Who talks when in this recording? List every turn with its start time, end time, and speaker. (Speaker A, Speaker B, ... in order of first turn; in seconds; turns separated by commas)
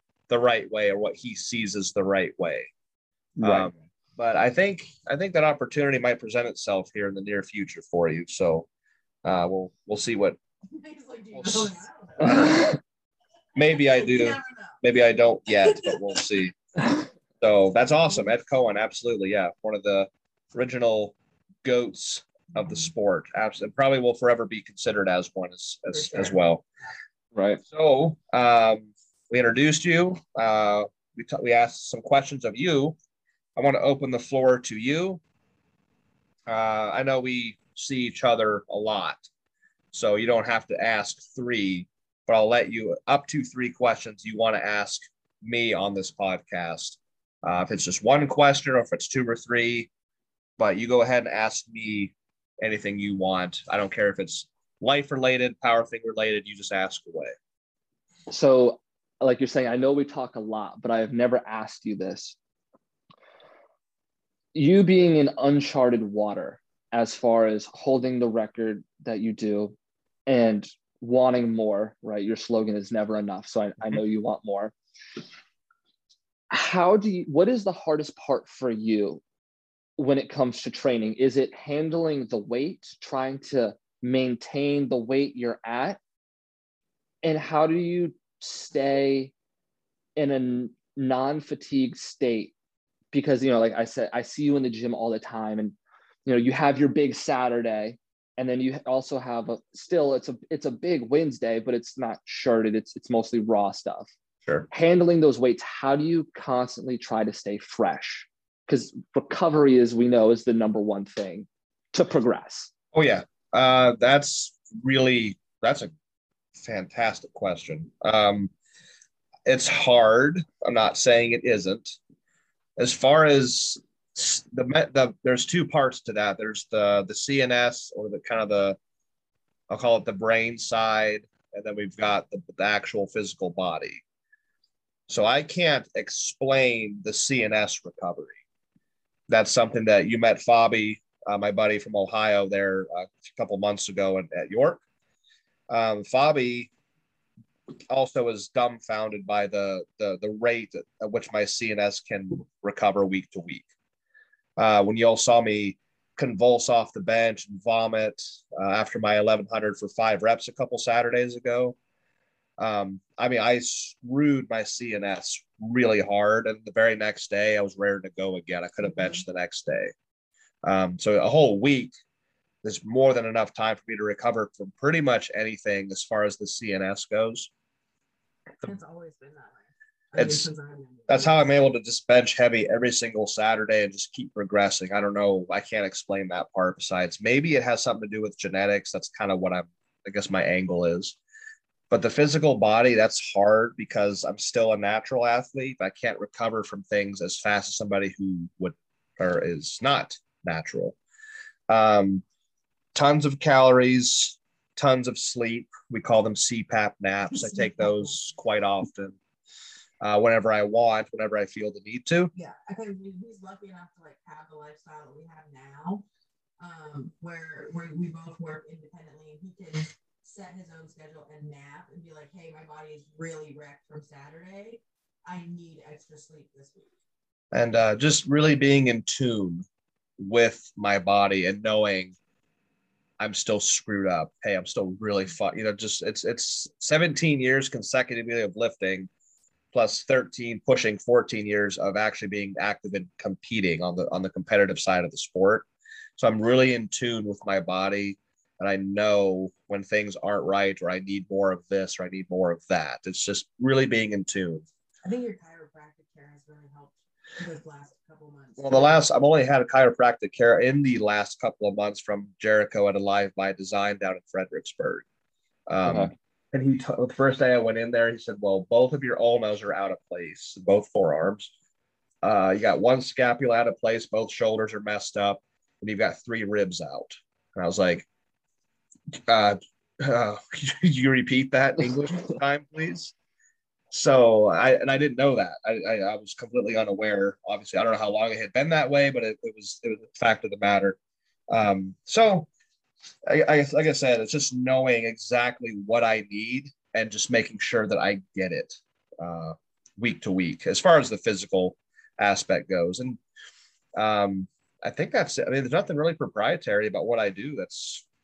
Speaker A: 0.3-2.7, Speaker B: 3.4-3.7, Speaker A: 3.4-8.7, Speaker A: 9.2-10.4, Speaker C: 10.7-12.7, Speaker A: 11.3-12.6, Speaker B: 12.2-12.7, Speaker A: 13.6-16.6, Speaker C: 13.6-14.8, Speaker A: 17.4-26.6, Speaker B: 27.3-27.6, Speaker A: 27.7-33.0, Speaker A: 33.6-35.2, Speaker A: 36.5-39.3, Speaker A: 39.9-49.9, Speaker A: 50.6-57.3, Speaker B: 58.3-62.4, Speaker B: 64.5-69.8, Speaker B: 70.3-74.7, Speaker B: 76.5-79.2, Speaker B: 80.0-86.0, Speaker B: 87.2-89.3, Speaker B: 90.2-92.5, Speaker B: 93.1-95.8, Speaker B: 96.3-104.1, Speaker B: 104.7-112.7, Speaker A: 112.9-115.9, Speaker A: 116.6-118.5, Speaker A: 119.5-122.0, Speaker A: 122.8-128.8, Speaker A: 129.7-134.0, Speaker A: 135.1-138.4, Speaker A: 139.3-144.8, Speaker A: 145.7-146.7, Speaker A: 147.9-153.7, Speaker A: 154.6-161.8, Speaker A: 162.6-169.9, Speaker A: 170.6-171.9, Speaker A: 172.6-177.5, Speaker C: 178.6-181.5, Speaker A: 180.2-180.5, Speaker A: 181.1-191.2, Speaker A: 191.9-201.0, Speaker A: 201.7-202.2, Speaker A: 202.9-209.2, Speaker C: 207.4-208.2, Speaker A: 210.0-212.3, Speaker C: 212.3-216.0, Speaker C: 216.6-226.9, Speaker A: 227.5-229.7, Speaker A: 230.2-232.2, Speaker A: 233.2-239.1, Speaker A: 239.7-245.7, Speaker A: 246.2-254.7, Speaker C: 255.0-258.9, Speaker A: 258.6-265.0, Speaker A: 265.7-271.5, Speaker B: 265.9-266.1, Speaker A: 272.2-278.1, Speaker A: 279.3-283.1, Speaker A: 283.9-291.0, Speaker A: 291.5-292.5, Speaker A: 293.2-303.2, Speaker A: 303.9-308.1